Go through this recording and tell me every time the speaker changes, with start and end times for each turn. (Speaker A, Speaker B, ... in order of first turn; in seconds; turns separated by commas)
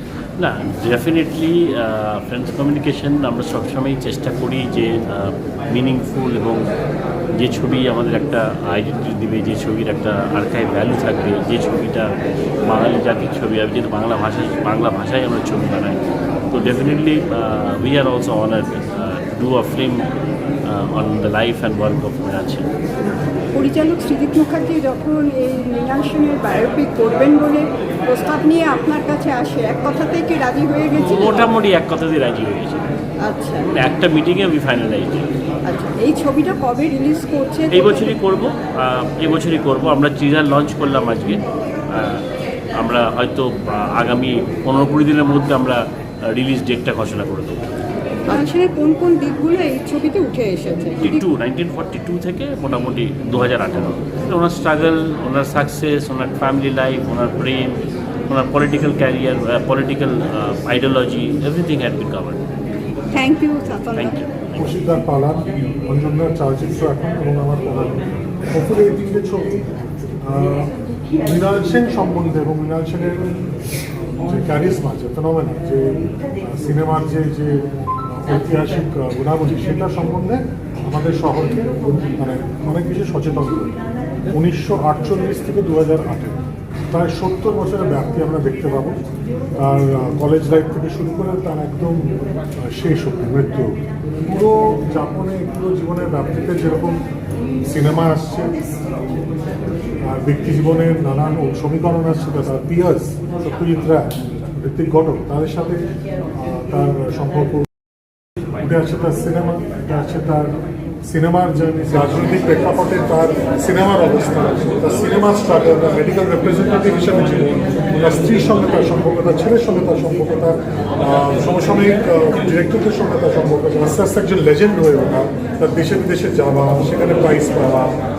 Speaker A: 0.4-6.7, Speaker A: 7.3-12.1, Speaker A: 12.7-16.0, Speaker A: 16.5-20.1, Speaker A: 20.7-22.7, Speaker B: 23.5-31.5, Speaker A: 30.9-32.8, Speaker B: 33.2-33.7, Speaker A: 33.6-35.3, Speaker B: 35.7-38.2, Speaker A: 37.7-41.4, Speaker A: 41.9-47.6, Speaker B: 48.3-51.2, Speaker A: 51.0-62.4, Speaker B: 63.1-64.2, Speaker A: 63.9-64.3, Speaker C: 64.5-69.7, Speaker C: 70.2-70.7, Speaker C: 71.2-73.5, Speaker C: 74.2-83.7, Speaker C: 84.3-86.4, Speaker C: 86.9-89.0, Speaker C: 89.6-93.7, Speaker C: 94.3-97.0, Speaker C: 97.7-98.6, Speaker C: 100.0-107.7, Speaker C: 108.5-128.0